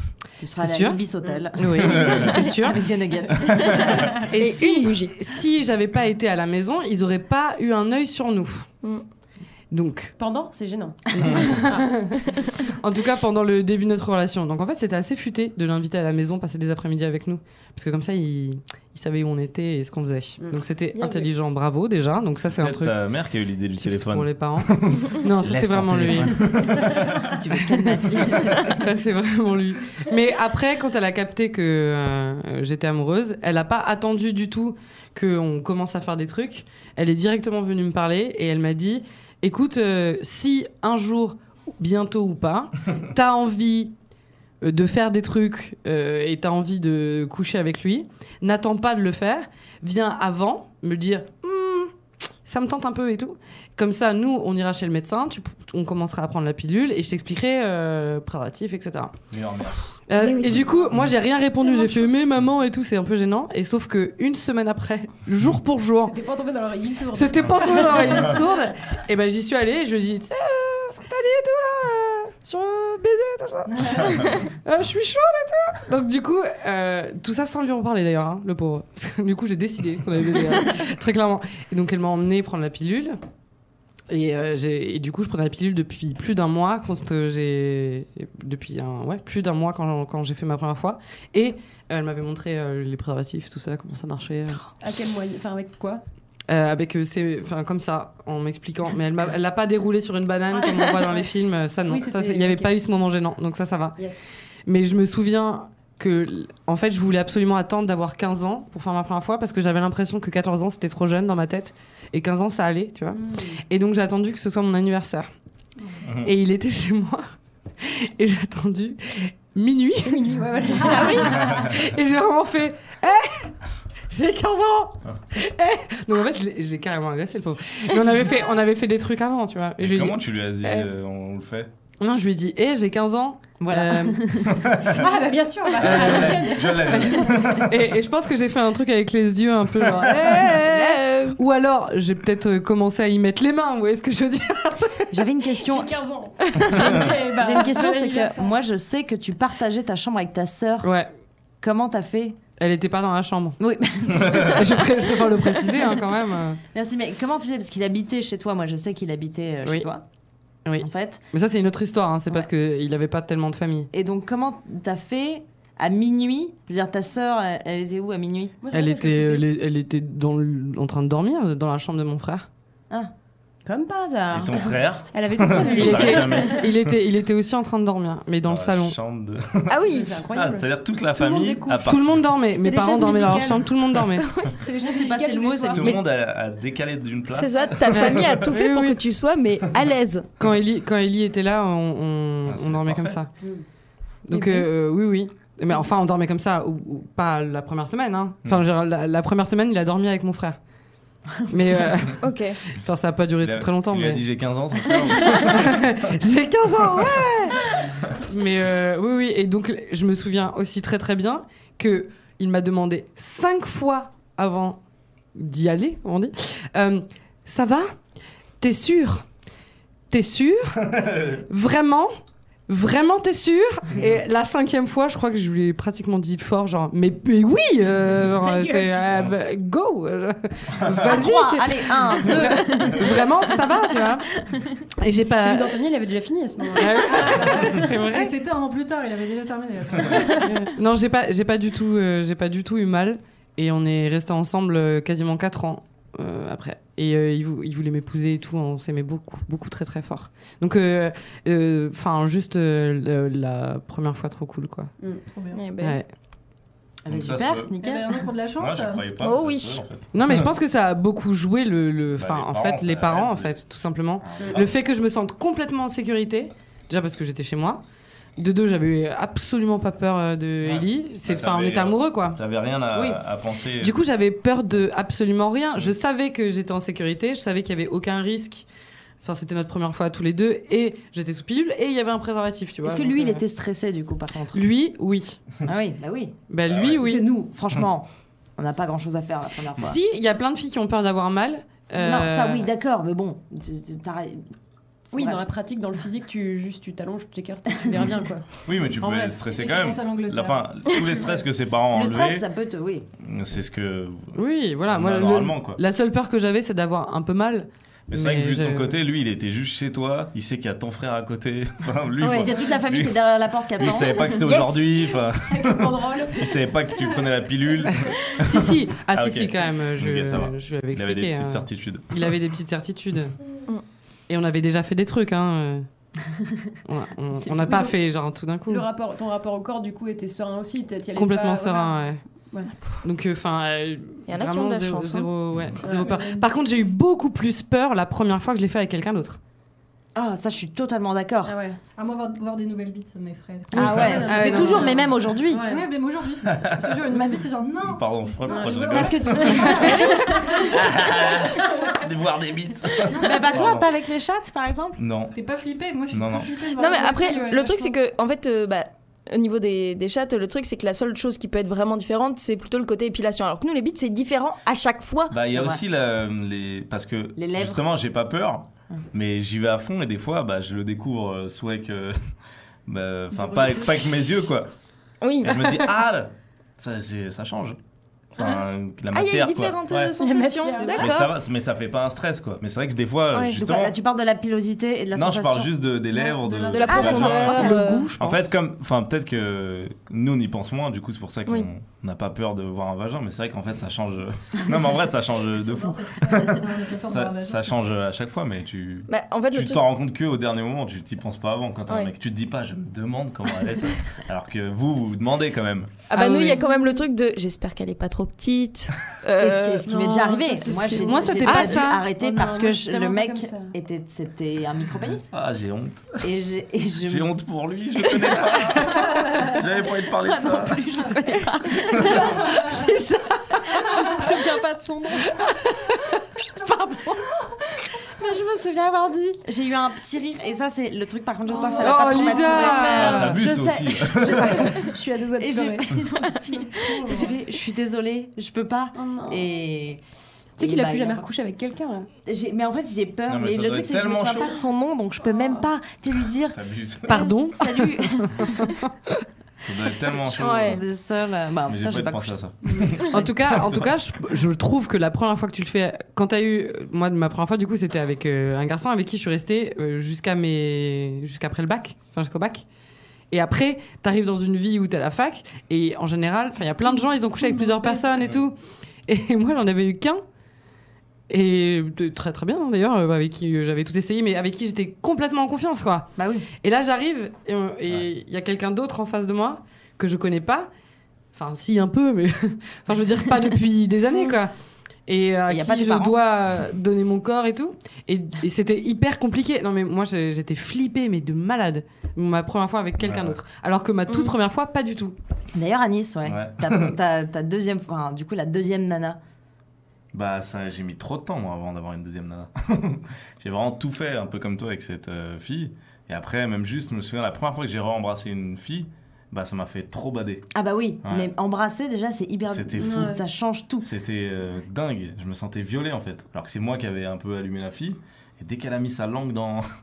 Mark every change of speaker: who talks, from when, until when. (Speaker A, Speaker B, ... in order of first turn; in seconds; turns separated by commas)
Speaker A: 0.4-4.2, Speaker B: 0.6-1.0, Speaker B: 1.5-2.8, Speaker C: 1.8-2.3, Speaker C: 3.5-4.0, Speaker B: 3.9-8.7, Speaker D: 3.9-5.2, Speaker B: 9.7-10.1, Speaker E: 10.2-12.0, Speaker B: 11.1-23.0, Speaker C: 11.2-11.5, Speaker E: 20.4-21.2, Speaker C: 22.4-27.2, Speaker B: 23.7-26.8, Speaker A: 26.6-28.8, Speaker B: 27.8-43.9, Speaker B: 44.6-59.1, Speaker C: 59.3-59.8, Speaker B: 60.1-66.1, Speaker D: 60.2-60.6, Speaker C: 60.4-61.1, Speaker E: 61.5-62.3, Speaker E: 66.0-68.5, Speaker B: 67.1-83.2, Speaker C: 67.4-68.4, Speaker F: 73.7-74.2, Speaker B: 84.1-94.6, Speaker E: 94.8-96.0, Speaker B: 96.5-104.0, Speaker E: 100.5-101.3, Speaker E: 101.8-102.7, Speaker E: 104.0-104.2, Speaker B: 104.7-115.3, Speaker E: 113.1-113.6, Speaker C: 116.0-116.3, Speaker B: 116.2-117.2, Speaker B: 117.8-120.2, Speaker E: 120.0-121.6, Speaker B: 120.8-123.5, Speaker B: 124.1-130.9, Speaker C: 129.8-131.7, Speaker B: 132.0-134.4, Speaker A: 133.6-134.7, Speaker C: 134.4-135.1, Speaker E: 134.8-137.5, Speaker C: 135.8-137.9, Speaker B: 135.8-145.3, Speaker D: 140.6-141.4, Speaker A: 145.1-145.9, Speaker E: 145.6-148.5, Speaker A: 146.7-150.9, Speaker C: 146.7-147.0, Speaker B: 150.8-151.1, Speaker A: 151.6-152.4, Speaker B: 152.6-156.6, Speaker A: 153.6-155.7, Speaker A: 156.7-160.0, Speaker B: 160.7-163.9, Speaker A: 160.8-161.2, Speaker A: 163.9-168.7, Speaker E: 168.6-169.4, Speaker B: 168.7-172.5, Speaker E: 173.6-176.7, Speaker C: 174.3-176.9, Speaker B: 175.7-179.0, Speaker C: 178.4-182.3, Speaker D: 179.7-180.2, Speaker E: 179.9-180.7, Speaker E: 181.2-181.8, Speaker B: 181.6-184.3, Speaker E: 182.5-183.8, Speaker D: 184.2-184.6, Speaker E: 184.6-186.0, Speaker A: 184.8-185.9, Speaker C: 185.7-188.5, Speaker D: 187.3-190.3, Speaker B: 187.9-189.0, Speaker B: 190.4-193.3, Speaker C: 192.4-193.2, Speaker E: 193.4-193.6, Speaker B: 194.2-200.6, Speaker E: 194.3-194.6, Speaker B: 201.5-204.2, Speaker D: 202.2-202.6, Speaker C: 203.4-206.2, Speaker B: 205.2-214.8, Speaker C: 206.9-207.2, Speaker B: 215.3-218.0, Speaker B: 218.6-219.3, Speaker B: 220.1-222.1, Speaker C: 220.8-221.4, Speaker B: 222.7-234.3, Speaker E: 228.4-229.1, Speaker C: 230.8-231.0, Speaker A: 231.0-233.2, Speaker B: 235.0-235.8, Speaker E: 235.4-237.5, Speaker B: 236.8-238.3, Speaker F: 237.2-240.5, Speaker E: 240.3-240.7, Speaker B: 240.6-254.9, Speaker F: 255.3-255.6, Speaker D: 255.5-256.0, Speaker B: 255.8-256.1, Speaker A: 257.0-258.2, Speaker C: 257.1-257.7, Speaker F: 257.8-259.0, Speaker C: 258.6-260.5, Speaker D: 259.2-259.8, Speaker B: 260.1-267.8, Speaker C: 262.1-263.6, Speaker C: 264.2-264.7, Speaker B: 268.4-272.4, Speaker C: 270.6-274.0, Speaker A: 272.9-273.2, Speaker B: 273.8-278.7, Speaker B: 279.2-283.4, Speaker A: 282.8-284.7, Speaker B: 284.5-285.4, Speaker A: 285.6-286.4, Speaker B: 286.5-287.3, Speaker C: 286.7-287.0, Speaker A: 287.0-290.0, Speaker B: 289.8-292.7, Speaker A: 292.0-294.5, Speaker E: 295.1-298.5, Speaker A: 295.1-295.4, Speaker A: 297.7-298.1, Speaker C: 298.6-302.5, Speaker E: 299.0-299.6, Speaker F: 299.5-301.4, Speaker A: 301.9-303.1, Speaker C: 303.2-305.8, Speaker B: 304.3-309.0, Speaker C: 308.1-322.4, Speaker A: 312.2-314.8, Speaker D: 314.4-314.9, Speaker E: 315.4-316.7, Speaker B: 318.4-323.4, Speaker B: 324.3-325.9, Speaker B: 326.8-328.8, Speaker E: 327.3-328.0, Speaker E: 328.6-332.7, Speaker B: 331.1-332.2, Speaker B: 333.0-339.4, Speaker D: 334.3-335.3, Speaker E: 335.8-336.4, Speaker A: 340.1-341.6, Speaker E: 341.4-341.8, Speaker F: 342.0-345.0, Speaker A: 343.7-345.7, Speaker E: 343.8-345.9, Speaker B: 344.3-344.8, Speaker F: 345.6-350.9, Speaker C: 346.4-347.0, Speaker C: 347.8-350.0, Speaker E: 348.5-348.9, Speaker A: 348.9-350.7, Speaker E: 349.8-350.3, Speaker C: 350.6-353.9, Speaker F: 353.1-353.5, Speaker A: 353.1-355.0, Speaker C: 355.0-355.4, Speaker F: 355.3-358.0, Speaker C: 356.1-356.5, Speaker D: 356.7-365.4, Speaker C: 365.3-372.2, Speaker A: 365.5-365.8, Speaker A: 367.4-367.9, Speaker C: 372.9-374.7, Speaker D: 375.2-375.6, Speaker C: 375.4-377.8, Speaker C: 378.4-380.1, Speaker D: 379.1-381.3, Speaker E: 380.2-381.1, Speaker C: 380.9-383.9, Speaker D: 383.3-383.6, Speaker A: 383.5-385.7, Speaker C: 385.1-406.0, Speaker E: 386.1-387.9, Speaker D: 386.7-388.1, Speaker B: 386.9-388.4, Speaker F: 395.5-397.7, Speaker D: 399.1-399.8, Speaker D: 406.1-409.9, Speaker B: 406.1-406.6, Speaker E: 406.6-407.0, Speaker A: 409.4-415.3, Speaker E: 409.8-413.8, Speaker B: 410.9-412.1, Speaker C: 415.3-416.2, Speaker A: 416.2-417.4, Speaker C: 417.0-421.0, Speaker A: 418.8-419.6, Speaker A: 420.1-425.3, Speaker C: 421.9-422.4, Speaker B: 422.8-423.8, Speaker E: 424.0-424.6, Speaker B: 425.3-426.2, Speaker A: 426.6-427.2, Speaker A: 428.2-440.0, Speaker F: 431.5-432.9, Speaker E: 431.5-432.7, Speaker B: 431.8-433.4, Speaker C: 432.9-434.9, Speaker E: 434.3-436.0, Speaker F: 436.3-437.4, Speaker E: 438.9-439.5, Speaker A: 440.6-441.3, Speaker E: 440.6-442.1, Speaker A: 442.2-448.5, Speaker C: 443.3-444.6, Speaker E: 445.3-445.6, Speaker C: 446.5-447.3, Speaker B: 447.1-448.9, Speaker C: 449.6-450.8, Speaker A: 450.1-452.4, Speaker D: 450.3-450.8, Speaker C: 451.6-453.9, Speaker B: 453.1-462.6, Speaker B: 463.3-470.2, Speaker F: 467.4-468.0, Speaker B: 471.3-480.7, Speaker A: 476.2-476.5, Speaker B: 481.3-484.5, Speaker B: 485.1-495.1, Speaker A: 485.5-486.2, Speaker C: 493.0-493.4, Speaker D: 494.1-494.3, Speaker A: 495.5-499.2, Speaker C: 496.2-497.0, Speaker C: 500.1-510.5, Speaker A: 510.5-513.9, Speaker C: 511.0-511.3, Speaker C: 512.5-513.2, Speaker E: 512.8-513.2, Speaker C: 513.8-519.6